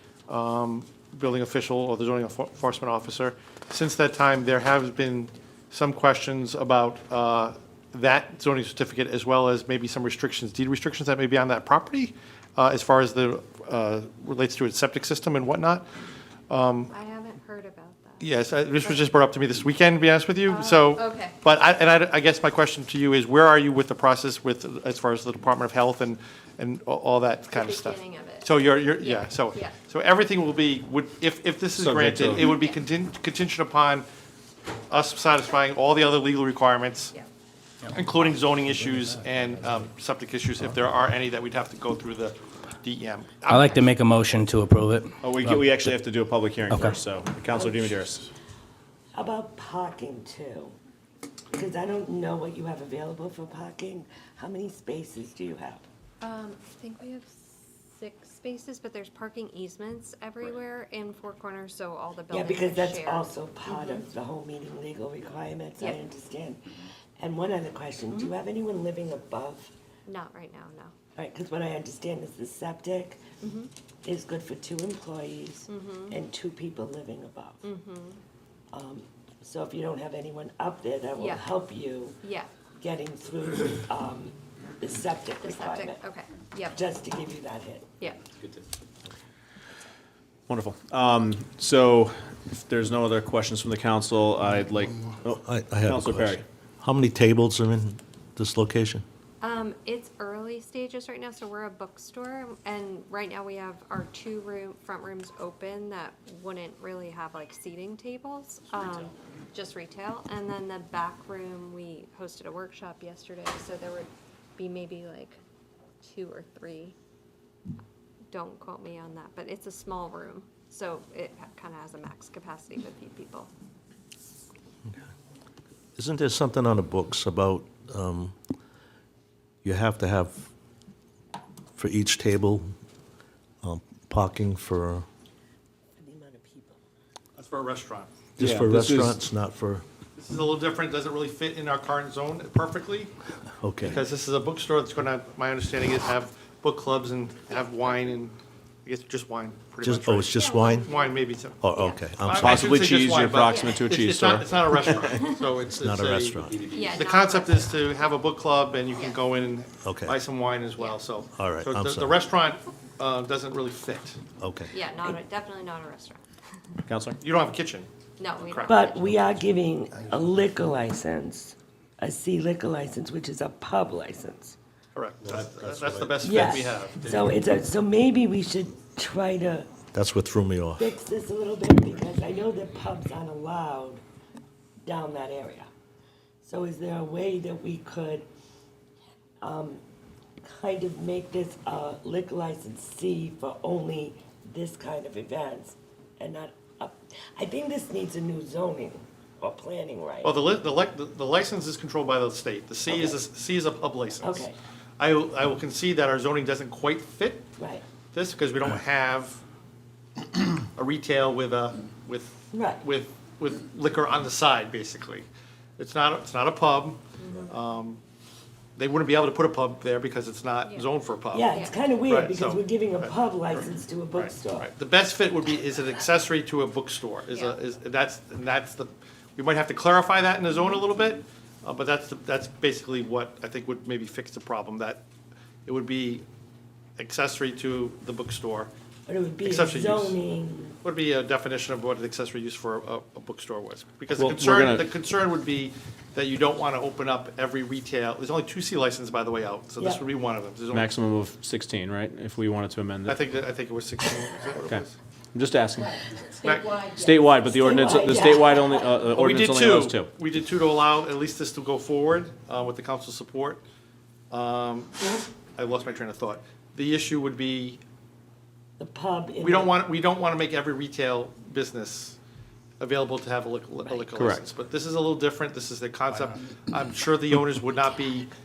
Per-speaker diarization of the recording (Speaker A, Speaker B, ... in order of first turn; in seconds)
Speaker A: 0.3-15.9, 16.5-16.9, 18.2-34.0, 34.9-37.1, 37.9-43.9, 137.4-138.1, 140.2-143.1, 143.8-151.6, 152.2-164.2, 167.2-167.9, 168.4-168.9, 174.9-177.0, 200.2-204.5, 205.0-207.5, 208.1-209.4, 210.7-215.2, 215.8-218.0, 218.8-223.1, 224.1-235.0, 235.7-236.2, 237.0-238.7, 239.4-240.2, 240.8-250.9, 253.1-254.9, 256.4-256.8, 259.1-263.6, 264.3-267.8, 269.4-272.2, 272.8-278.3
Speaker B: 16.9-19.0, 20.4-21.4, 27.5-29.8, 32.4-32.8, 56.2-64.0, 70.0-70.9, 73.4-73.7, 75.7-76.2, 77.6-78.2, 81.2-81.5, 82.2-82.5, 85.4-86.8, 99.4-115.4, 116.0-116.9, 118.3-123.5, 150.3-152.0, 153.5-153.8, 156.6-158.1, 160.8-161.0, 164.7-166.2, 168.2-169.2, 217.2-217.5, 220.6-220.9, 221.5-221.8, 227.3-227.6
Speaker C: 31.8-32.5, 95.3-99.0, 126.0-128.3, 129.6-130.5, 131.8-132.7, 133.6-135.1, 138.4-139.8, 143.6-144.0, 149.8-150.9, 151.6-152.8, 155.8-156.7, 159.8-160.2, 161.3-162.2, 164.4-164.7, 175.3-176.1, 179.9-180.9
Speaker D: 43.5-45.6, 46.7-47.0
Speaker E: 45.2-48.3, 90.5-96.4, 138.4-139.2, 152.3-155.2, 166.8-167.2, 244.1-244.9, 250.7-253.2, 254.7-256.0, 256.8-260.1, 274.1-274.4
Speaker F: 47.5-48.0, 49.1-50.7, 51.5-55.9, 62.3-69.7, 71.2-73.2, 74.0-77.6, 78.7-82.2, 82.8-86.0, 86.7-87.9, 136.0-136.8, 168.7-174.6, 176.2-179.8, 180.8-184.0, 184.8-185.7, 186.4-188.2, 189.4-189.8, 190.4-200.4, 202.9-203.2, 204.2-204.6, 207.6-207.8, 212.5-212.8, 221.3-224.7, 239.1-240.8, 257.5-258.9, 268.8-269.8